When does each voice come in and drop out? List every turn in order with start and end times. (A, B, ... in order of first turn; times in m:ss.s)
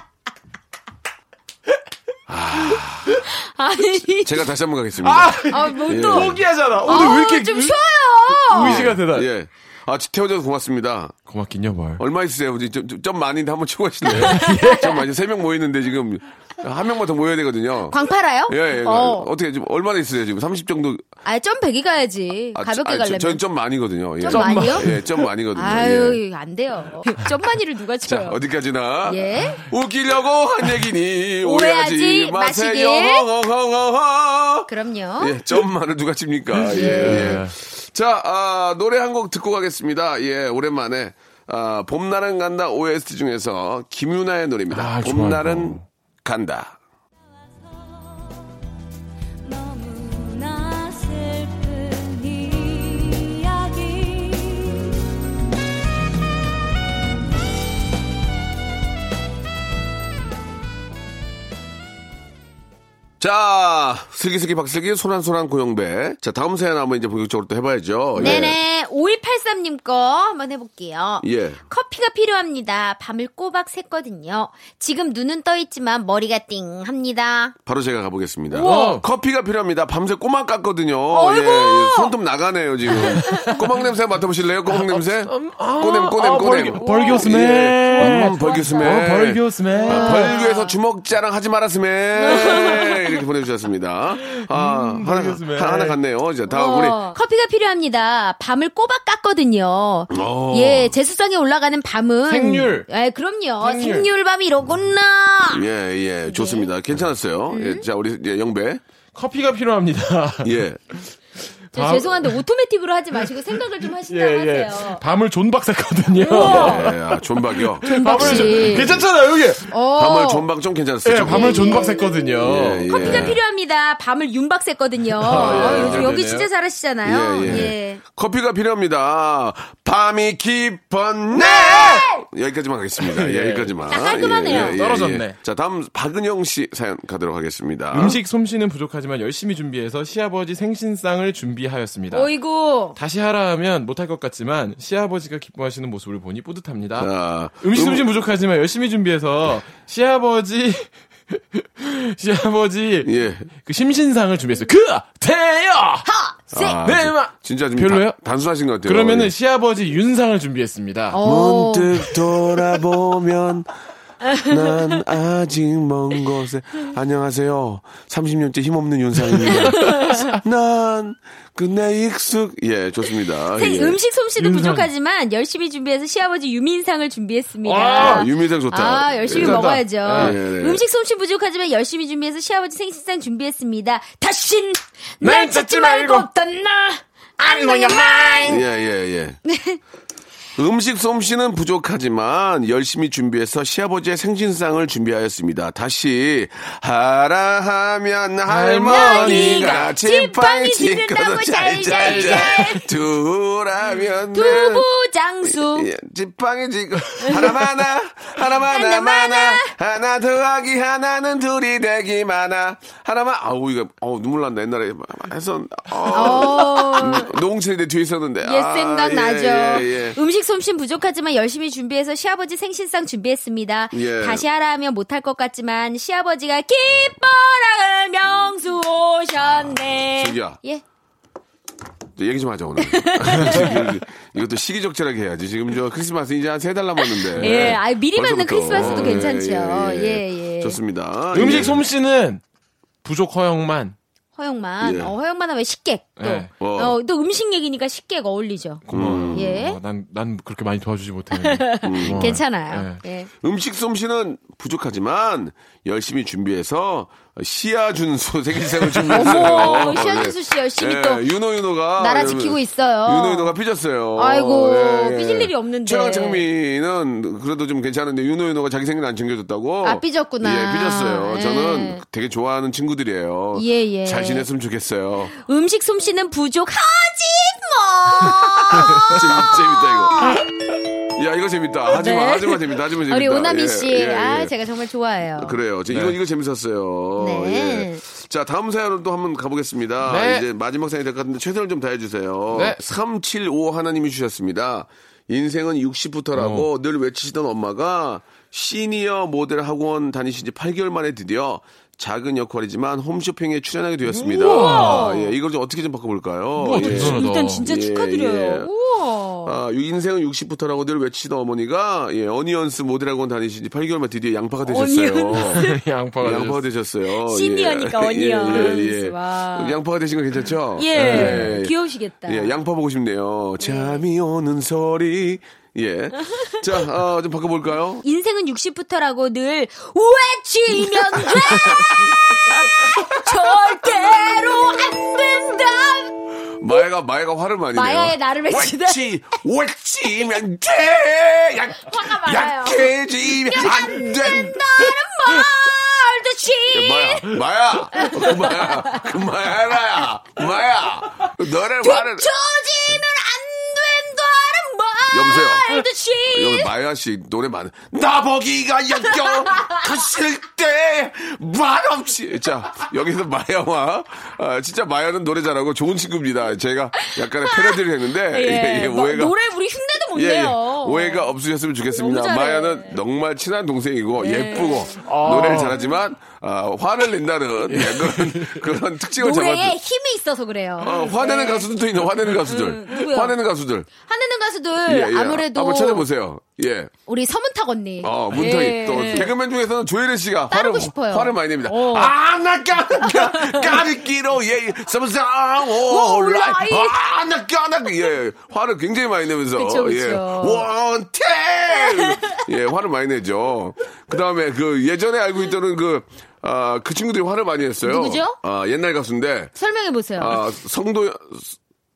0:02.3-0:03.2 A
0:03.2-0:04.4 B
0:04.2-0:06.4 A
0:05.0-0:07.8 C
0:05.4-0:08.9 B
0:08.4-0:09.3 C
0:08.5-0:11.2 A
0:11.3-0:12.0 C
0:12.0-0:21.0 A
0:14.1-0:14.9 B
0:14.2-0:14.9 C
0:17.9-0:19.3 B
0:21.2-0:23.4 B
0:22.6-0:26.2 A
0:24.2-0:24.9 B
0:24.3-0:25.1 C
0:25.5-0:28.4 B
0:28.1-0:46.8 A
0:29.0-0:29.6 B
0:31.4-0:33.3 B
0:34.7-0:35.4 B
0:36.6-0:37.5 C
0:36.7-0:37.4 B
0:44.7-0:45.8 C
0:49.4-0:54.9 B
1:03.2-1:08.6 A
1:08.2-1:17.6 B
1:11.2-1:11.6 A
1:17.7-1:37.0 A
1:18.5-1:19.0 B
1:18.6-1:19.0 C
1:21.1-1:22.1 B
1:22.9-1:23.5 B
1:23.1-1:23.7 C
1:24.7-1:30.4 C
1:26.8-1:29.1 B
1:29.8-1:30.8 B
1:32.2-1:33.0 B
1:34.2-1:36.0 C
1:36.5-1:45.7 B
1:40.1-1:41.0 A
1:42.3-1:42.9 C
1:43.6-1:44.1 C
1:45.5-1:48.8 A
1:46.3-1:46.7 B
1:47.5-1:47.9 B
1:49.1-1:50.6 C
1:50.4-1:50.8 A
1:51.7-1:52.4 C
1:51.7-1:55.0 B
1:53.8-1:59.7 C
1:56.2-1:57.0 B
1:56.3-1:59.0 A
1:57.8-1:59.0 B
1:59.7-2:00.5 B
2:00.0-2:01.8 A
2:01.0-2:03.4 C
2:01.3-2:02.2 B
2:02.4-2:03.4 A
2:02.9-2:08.0 B
2:05.2-2:06.5 C
2:05.2-2:06.1 A
2:07.0-2:18.2 A
2:07.4-2:07.7 C
2:11.3-2:12.2 B
2:11.7-2:12.0 C
2:13.0-2:13.7 C
2:13.9-2:14.8 B
2:14.5-2:15.4 C
2:17.9-2:22.3 C
2:22.1-2:23.0 B
2:23.0-2:38.2 C
2:27.0-2:28.1 A
2:33.0-2:33.5 A
2:36.1-2:36.8 B
2:36.5-2:39.3 A
2:38.8-2:41.2 C
2:41.1-2:42.2 B
2:41.2-2:43.7 A
2:44.3-2:44.8 B
2:44.4-2:54.0 A
2:49.6-2:50.3 B
2:53.5-3:08.6 B
2:54.4-2:54.9 C
2:57.6-2:58.3 C
2:58.0-3:00.8 A
2:59.3-3:00.4 C
3:05.2-3:06.3 C
3:07.4-3:08.6 C
3:08.4-3:09.4 A
3:09.4-3:09.8 B
3:10.6-3:24.8 A
3:18.5-3:19.9 C
3:18.9-3:22.9 B
3:21.9-3:22.8 C
3:24.3-3:25.9 B
3:25.4-3:40.2 A
3:28.6-3:29.7 B
3:36.1-3:37.3 B
3:38.4-3:50.8 B
3:43.9-3:44.4 A
3:50.2-3:50.6 A
3:52.2-4:01.9 A
3:52.8-3:53.8 B
3:57.4-3:57.8 C
3:57.4-4:00.8 B
3:58.7-3:59.3 C
4:01.3-4:02.4 C
4:03.0-4:04.0 C
4:04.4-4:09.8 B
4:04.8-4:05.1 A
4:06.2-4:06.5 C
4:06.6-4:07.0 A
4:08.9-4:13.0 C
4:08.9-4:09.6 A
4:11.3-4:13.3 B
4:11.8-4:12.4 A
4:13.4-4:35.3 A
4:18.7-4:20.0 C
4:19.1-4:21.3 B
4:22.0-4:23.5 B
4:24.2-4:26.4 B
4:29.8-4:32.0 B
4:33.6-4:34.5 B
4:35.3-4:40.4 B
4:38.7-4:40.4 A
4:41.1-4:44.5 A
4:41.9-4:45.6 B
4:45.4-5:08.7 A
4:45.9-4:46.2 C
4:47.2-4:48.0 B
4:50.0-4:50.4 C
4:52.5-4:52.8 C
4:56.4-4:56.7 C
5:04.1-5:05.1 C
5:04.4-5:05.3 B
5:06.6-5:07.6 C
5:06.7-5:09.6 B
5:09.4-5:15.7 A
5:14.6-5:15.8 B
5:15.3-5:16.6 C
5:16.2-5:21.7 A
5:17.3-5:19.8 B
5:20.8-5:22.5 B
5:20.9-5:21.6 C
5:22.3-5:28.0 A
5:23.6-5:24.0 B
5:26.2-5:26.6 B
5:28.0-5:36.8 B
5:31.0-5:32.1 A
5:33.0-5:33.4 A
5:36.6-5:44.6 A
5:37.7-5:39.0 B
5:41.8-5:47.3 B
5:46.7-5:52.3 A
5:47.9-5:49.1 B
5:51.8-5:56.7 B
5:55.1-6:09.4 A
5:59.1-5:59.8 B
6:07.0-6:11.3 B
6:10.2-6:19.8 A
6:12.0-6:13.0 B
6:14.2-6:15.0 B
6:15.0-6:15.8 C
6:17.7-6:18.7 C
6:19.2-6:21.7 B
6:20.8-6:23.9 A
6:22.4-6:23.4 B
6:24.0-6:26.0 B
6:24.9-6:26.9 A
6:27.1-6:29.3 B
6:28.0-6:49.5 A
6:28.4-6:29.0 C
6:30.5-6:32.1 B
6:33.1-6:33.8 B
6:35.8-6:37.0 B
6:39.5-6:40.7 B
6:42.0-6:42.3 B
6:47.8-6:48.4 B
6:49.6-6:50.4 B
6:50.2-6:51.6 A